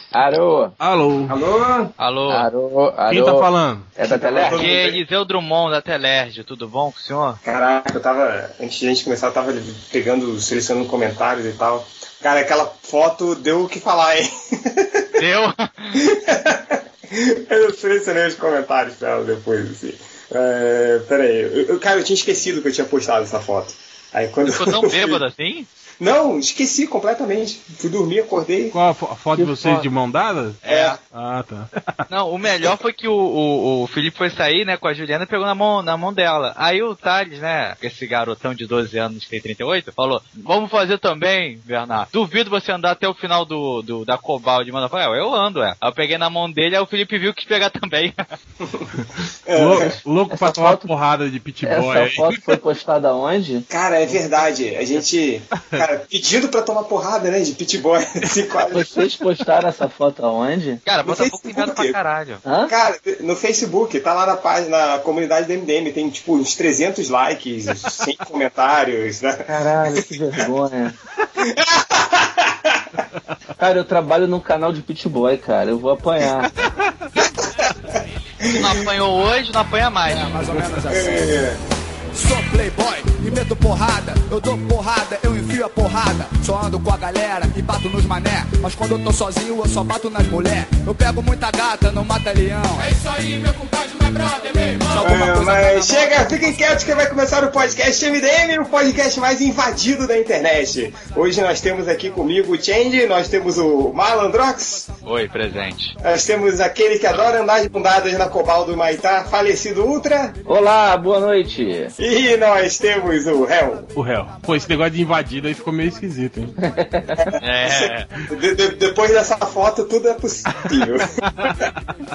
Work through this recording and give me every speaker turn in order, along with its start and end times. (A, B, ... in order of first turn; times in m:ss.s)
0:00.1-0:00.7 A
0:00.8-0:01.4 B
0:01.3-0:01.9 C
0:02.0-0:02.5 D
0:02.3-0:04.7 A
0:03.1-0:03.9 B
0:04.0-0:05.0 C
0:04.5-0:07.4 D
0:07.4-0:15.0 C
0:15.2-0:16.0 D
0:16.0-0:16.8 C
0:17.5-0:25.2 C
0:24.5-0:25.7 D
0:26.0-0:28.8 C
0:28.7-0:31.7 B
0:29.3-0:29.9 A
0:30.6-0:31.0 D
0:32.1-0:48.1 D
0:49.5-0:49.9 C
0:49.5-0:52.4 B
0:49.7-0:50.9 A
0:51.6-0:54.2 A
0:53.7-0:58.9 C
0:55.5-0:55.8 B
0:58.7-1:00.8 A
1:00.8-1:02.4 D
1:01.0-1:02.0 C
1:02.4-1:02.7 A
1:02.7-1:10.0 C
1:09.5-1:10.9 A
1:11.4-1:12.8 C
1:13.6-1:16.5 A
1:16.6-1:16.9 B
1:18.4-1:18.7 C
1:18.5-1:20.3 D
1:20.1-1:21.2 E
1:20.9-1:21.6 C
1:22.1-1:36.6 E
1:35.0-1:44.9 C
1:45.0-1:45.9 D
1:46.0-1:50.4 C
1:50.4-1:51.9 A
1:52.0-1:53.9 C
1:53.9-1:56.5 B
1:56.6-1:57.4 A
1:57.2-2:01.0 C
1:57.4-1:58.0 D
2:00.7-2:01.7 B